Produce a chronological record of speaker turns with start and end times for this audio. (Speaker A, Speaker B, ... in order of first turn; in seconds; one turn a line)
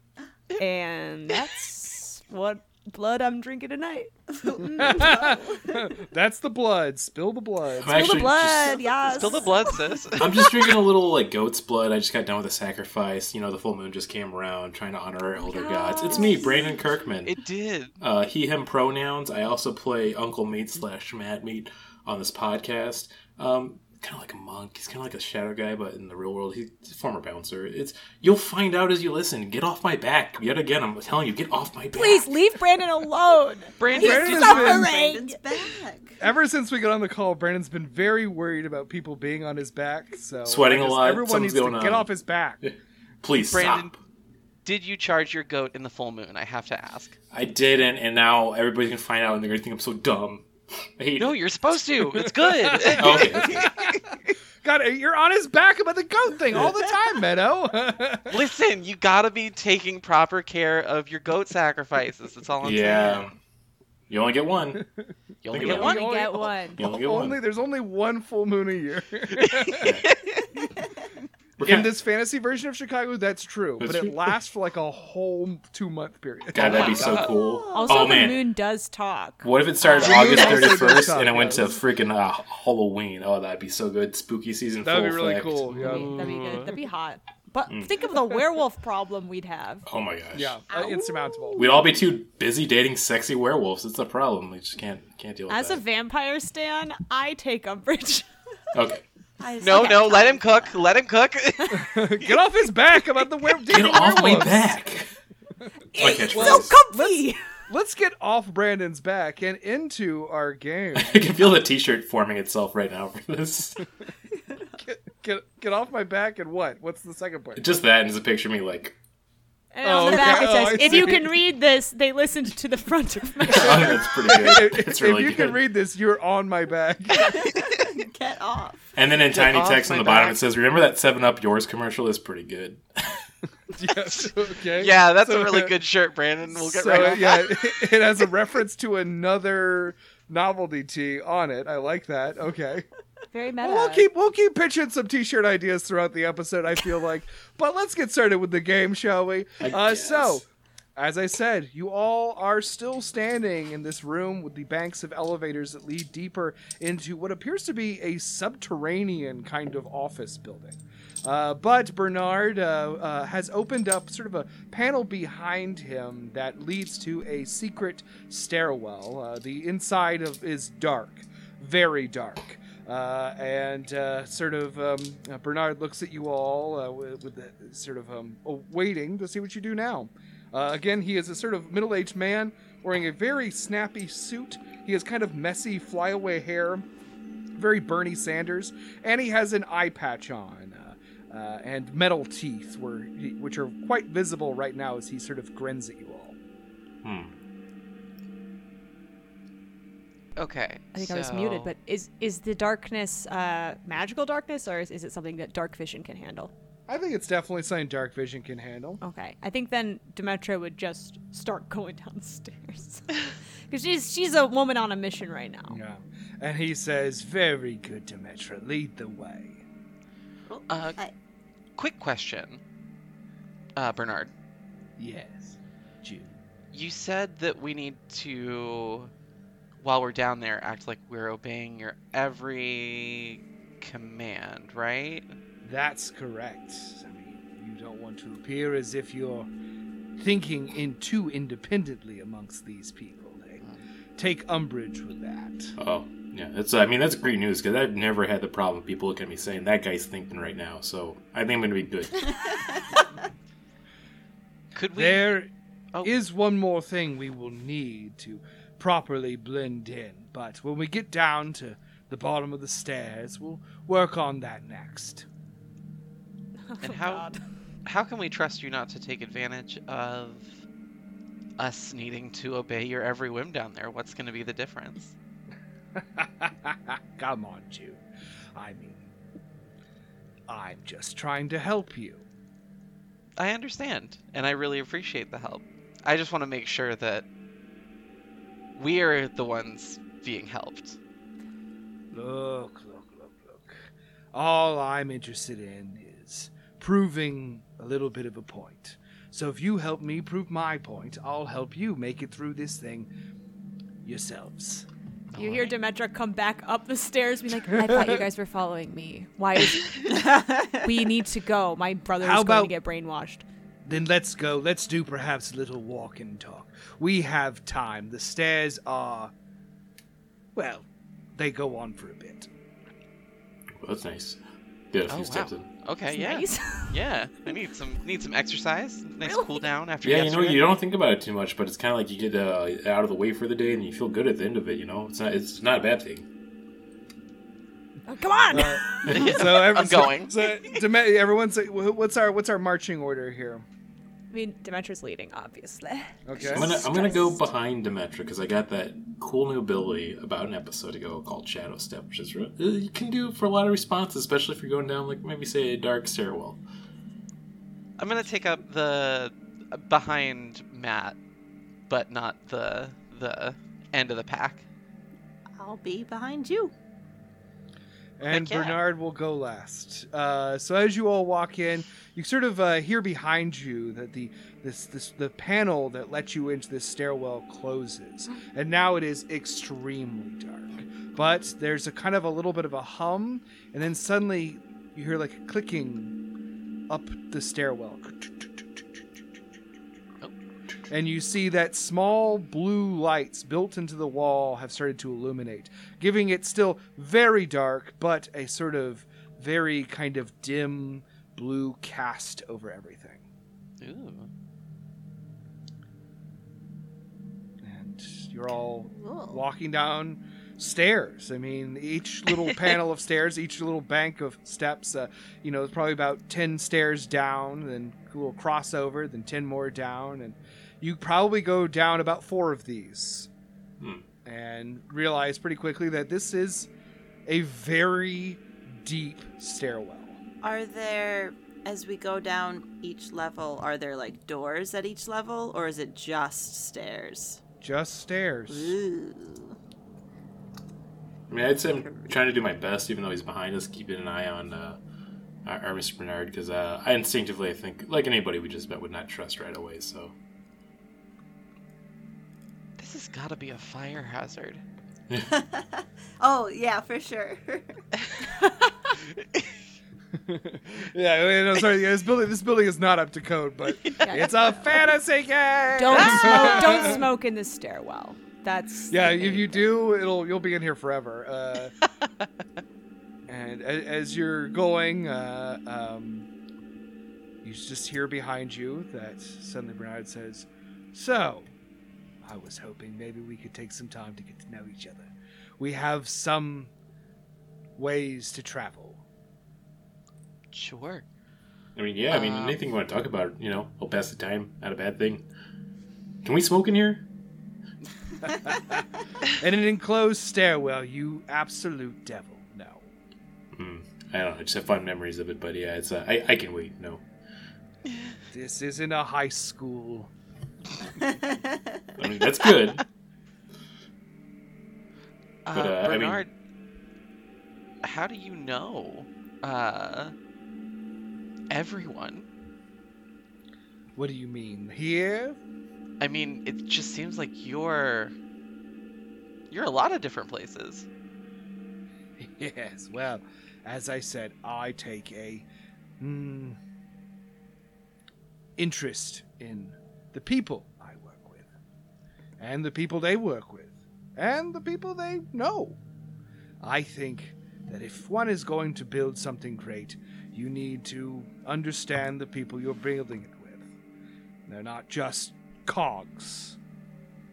Speaker A: 0.6-5.2
Speaker B: 4.4-5.7
Speaker C: 4.8-8.2
Speaker D: 7.8-8.8
Speaker A: 7.8-9.8
Speaker E: 9.1-10.5
Speaker D: 10.2-17.4
Speaker A: 15.4-16.6
Speaker E: 17.2-18.0
Speaker D: 18.0-32.3
Speaker A: 31.9-35.7
Speaker E: 33.8-34.8
Speaker B: 33.9-36.2
Speaker C: 33.9-34.9
Speaker C: 36.2-42.6
Speaker D: 40.5-42.1
Speaker D: 42.6-43.9
Speaker E: 43.5-44.0
Speaker E: 44.6-47.1
Speaker D: 47.3-51.3
Speaker E: 51.2-53.8
Speaker C: 52.2-58.4
Speaker D: 53.0-53.7
Speaker E: 58.3-63.2
Speaker D: 62.6-63.3
Speaker D: 64.1-64.8
Speaker E: 65.4-66.2
Speaker D: 65.5-66.0
Speaker A: 65.7-66.8
Speaker C: 65.8-70.0
Speaker D: 66.7-67.4
Speaker E: 69.4-70.2
Speaker D: 69.8-70.1
Speaker B: 70.4-71.1
Speaker D: 71.6-71.9
Speaker C: 71.6-77.3
Speaker D: 73.8-74.2
Speaker D: 76.5-78.4
Speaker B: 76.7-78.3
Speaker A: 77.7-80.8
Speaker D: 79.4-86.2
Speaker C: 79.9-81.8
Speaker C: 84.8-86.7
Speaker A: 85.8-89.8
Speaker D: 89.9-90.6
Speaker C: 90.3-91.8
Speaker B: 90.7-91.6
Speaker D: 91.5-95.8
Speaker A: 95.5-98.3
Speaker D: 98.7-99.0
Speaker B: 99.4-100.8
Speaker E: 99.6-102.1
Speaker C: 101.7-104.8
Speaker D: 103.7-105.1
Speaker A: 103.8-104.5
Speaker A: 105.9-107.4
Speaker D: 105.9-106.7
Speaker C: 106.3-111.2
Speaker D: 110.9-113.8
Speaker C: 114.8-117.7
Speaker D: 117.5-118.9
Speaker A: 119.7-124.1
Speaker C: 119.8-121.4
Speaker D: 123.5-125.6
Speaker C: 123.5-127.5
Speaker B: 127.2-128.8
Speaker D: 128.9-133.2
Speaker E: 129.3-130.3
Speaker C: 133.7-135.7
Speaker E: 134.8-137.9
Speaker C: 136.5-142.9
Speaker A: 143.3-144.1
Speaker C: 143.6-186.9
Speaker D: 149.6-150.4
Speaker C: 187.6-196.3
Speaker D: 197.0-197.3
Speaker E: 200.3-201.7
Speaker A: 200.9-206.5
Speaker C: 206.9-209.0
Speaker A: 209.0-213.2
Speaker A: 213.7-215.8
Speaker C: 215.7-219.6
Speaker B: 220.5-221.1
Speaker E: 220.7-221.0
Speaker E: 221.8-222.6
Speaker E: 223.8-224.3
Speaker C: 225.0-226.3
Speaker E: 226.7-229.1
Speaker E: 229.8-235.3
Speaker C: 235.6-239.5
Speaker C: 240.2-243.6
Speaker C: 244.2-245.8
Speaker D: 245.8-252.4
Speaker E: 254.7-255.4
Speaker C: 254.9-255.5
Speaker C: 256.0-265.2
Speaker A: 266.6-267.4
Speaker E: 266.8-267.3
Speaker E: 267.8-270.6
Speaker E: 271.6-275.1
Speaker C: 275.9-278.0
Speaker C: 278.5-279.1
Speaker C: 280.5-282.2
Speaker E: 283.4-287.2
Speaker E: 288.8-291.0
Speaker C: 292.1-303.1
Speaker C: 304.0-304.9
Speaker E: 305.3-305.7
Speaker A: 305.4-313.4
Speaker C: 307.7-308.2
Speaker B: 310.1-310.8
Speaker C: 312.2-312.7
Speaker C: 313.8-319.3
Speaker C: 320.5-322.5
Speaker D: 323.8-324.4
Speaker D: 324.9-325.7
Speaker E: 325.1-330.7
Speaker A: 326.1-327.0
Speaker A: 329.2-329.6
Speaker D: 330.0-336.2
Speaker A: 338.1-339.4
Speaker C: 338.5-343.6
Speaker E: 339.1-340.3
Speaker A: 344.3-347.4
Speaker C: 346.2-346.8
Speaker D: 346.5-356.6
Speaker E: 358.0-361.2
Speaker E: 361.9-364.6
Speaker B: 365.6-366.7
Speaker C: 368.2-386.1
Speaker E: 368.3-368.8
Speaker C: 386.9-389.0
Speaker C: 390.9-403.2
Speaker E: 403.8-404.3
Speaker C: 407.6-423.3
Speaker B: 408.9-409.4
Speaker C: 424.2-426.7
Speaker C: 427.3-430.2
Speaker B: 430.4-437.4
Speaker C: 437.6-438.8
Speaker B: 438.5-439.6
Speaker D: 441.3-444.8
Speaker B: 441.8-442.1
Speaker D: 445.4-450.1
Speaker E: 452.8-454.6
Speaker B: 455.2-457.7
Speaker E: 459.2-459.5
Speaker C: 460.1-467.0
Speaker A: 464.0-464.5
Speaker A: 465.7-469.6
Speaker E: 466.2-466.9
Speaker C: 468.9-471.7
Speaker C: 473.3-476.3
Speaker C: 477.4-481.5
Speaker C: 482.2-486.7
Speaker C: 487.8-489.0
Speaker E: 490.5-491.0
Speaker D: 491.8-495.2
Speaker E: 492.1-492.6
Speaker D: 496.2-497.0
Speaker C: 498.2-498.8
Speaker C: 499.4-502.9
Speaker D: 503.5-507.0
Speaker C: 508.3-510.1
Speaker B: 511.1-511.5
Speaker D: 512.0-512.8
Speaker E: 515.4-516.3
Speaker D: 515.5-516.2
Speaker E: 517.8-520.1
Speaker E: 521.5-522.3
Speaker C: 524.0-525.4
Speaker E: 526.0-528.1
Speaker E: 529.5-530.9
Speaker C: 532.2-535.5
Speaker C: 536.0-536.6
Speaker C: 538.6-541.5
Speaker C: 542.4-545.8
Speaker C: 546.6-553.7
Speaker C: 554.5-556.6